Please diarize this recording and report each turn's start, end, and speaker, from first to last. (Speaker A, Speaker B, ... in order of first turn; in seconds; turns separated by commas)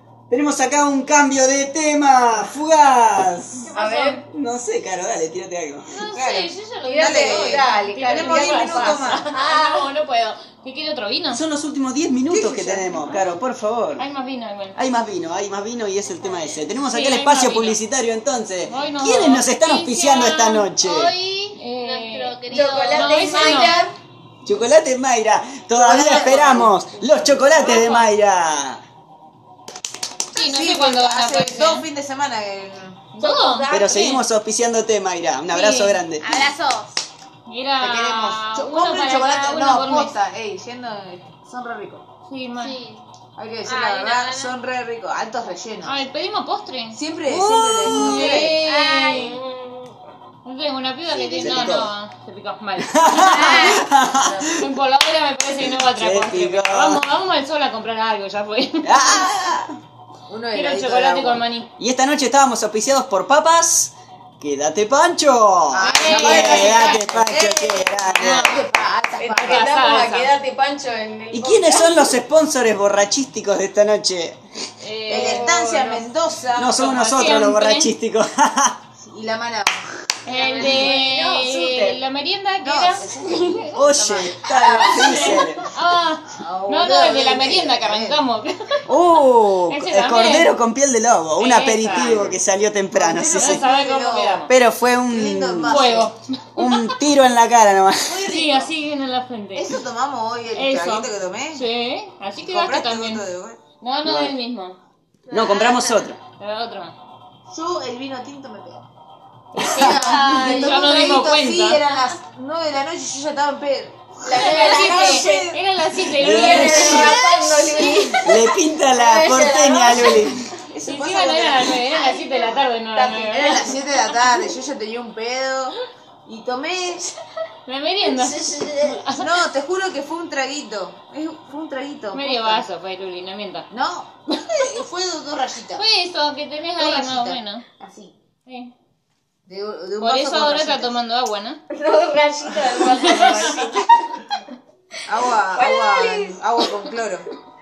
Speaker A: 0.3-3.7, Speaker B: 3.7-4.2, Speaker C: 3.7-4.2, Speaker D: 3.8-4.1, Speaker A: 4.3-5.9, Speaker B: 5.9-11.4, Speaker E: 6.1-9.2, Speaker C: 6.8-9.9, Speaker A: 11.3-14.0, Speaker E: 12.3-13.1, Speaker B: 14.0-14.8, Speaker A: 14.7-21.1, Speaker B: 16.9-17.8, Speaker B: 18.7-20.6, Speaker D: 19.9-23.9, Speaker B: 21.6-23.8, Speaker C: 22.5-23.9, Speaker A: 24.4-28.8, Speaker E: 25.8-26.8, Speaker B: 25.9-26.6, Speaker B: 27.5-28.1, Speaker B: 30.3-31.9, Speaker E: 30.4-33.0, Speaker B: 33.1-34.2, Speaker C: 33.2-34.2, Speaker A: 33.7-36.3, Speaker B: 35.5-36.0, Speaker D: 36.2-37.0, Speaker B: 37.5-40.1, Speaker E: 37.8-42.0, Speaker B: 42.3-42.8, Speaker D: 42.5-43.0, Speaker E: 43.4-46.0, Speaker D: 43.6-44.6, Speaker B: 45.8-49.4, Speaker E: 46.9-48.6, Speaker C: 48.0-50.0, Speaker D: 48.2-49.2, Speaker B: 50.5-53.9, Speaker D: 51.1-51.8, Speaker A: 51.4-51.9, Speaker A: 52.9-54.7, Speaker D: 53.2-53.9, Speaker C: 54.1-54.5, Speaker B: 54.5-59.3, Speaker A: 55.6-57.0, Speaker A: 58.8-59.8, Speaker E: 60.3-61.4, Speaker B: 60.5-61.7, Speaker A: 61.8-68.5, Speaker E: 65.7-69.7, Speaker B: 65.8-67.1, Speaker B: 68.2-68.7, Speaker C: 69.2-72.2, Speaker B: 69.3-70.3, Speaker A: 71.3-74.4, Speaker B: 74.8-75.6, Speaker E: 75.1-76.8, Speaker C: 75.1-76.0, Speaker A: 76.5-78.8, Speaker B: 76.7-77.9, Speaker E: 79.0-80.1, Speaker B: 80.2-83.8, Speaker C: 80.3-82.0, Speaker D: 80.5-80.7, Speaker E: 82.6-85.3, Speaker A: 83.7-85.6, Speaker B: 84.5-88.8, Speaker E: 86.3-88.2, Speaker A: 88.9-93.6, Speaker B: 89.7-90.5, Speaker B: 91.4-92.3, Speaker E: 92.9-94.5, Speaker B: 93.4-94.5, Speaker A: 94.5-96.0, Speaker E: 95.1-96.1, Speaker B: 95.7-97.0, Speaker A: 96.6-98.3, Speaker E: 98.1-98.7, Speaker B: 98.1-99.8, Speaker E: 99.5-101.7, Speaker B: 100.5-103.3, Speaker E: 102.4-103.6, Speaker B: 103.8-104.8, Speaker A: 104.0-104.3, Speaker D: 105.3-106.1, Speaker A: 105.3-106.2, Speaker B: 106.4-106.9, Speaker E: 107.5-108.9, Speaker B: 109.6-111.8, Speaker E: 109.6-115.6, Speaker A: 109.7-109.9, Speaker C: 109.9-111.0, Speaker D: 110.0-110.8, Speaker D: 111.8-112.2, Speaker C: 114.2-115.5, Speaker B: 114.3-117.2, Speaker A: 116.2-117.2, Speaker C: 116.2-120.3, Speaker D: 117.0-118.2, Speaker A: 118.2-120.5, Speaker E: 120.7-121.8, Speaker B: 120.8-123.7, Speaker D: 121.9-122.6, Speaker C: 123.0-123.4, Speaker E: 123.0-127.0, Speaker D: 124.1-124.5, Speaker B: 127.7-129.3, Speaker D: 128.4-128.7, Speaker C: 128.4-128.9, Speaker E: 129.2-132.7, Speaker B: 132.1-133.7, Speaker E: 133.7-135.8, Speaker B: 135.8-137.6, Speaker E: 136.8-138.2, Speaker B: 138.5-138.7, Speaker E: 139.5-141.0, Speaker B: 140.0-141.6, Speaker C: 141.7-144.2, Speaker B: 142.9-143.5, Speaker E: 145.1-147.3, Speaker C: 145.5-146.4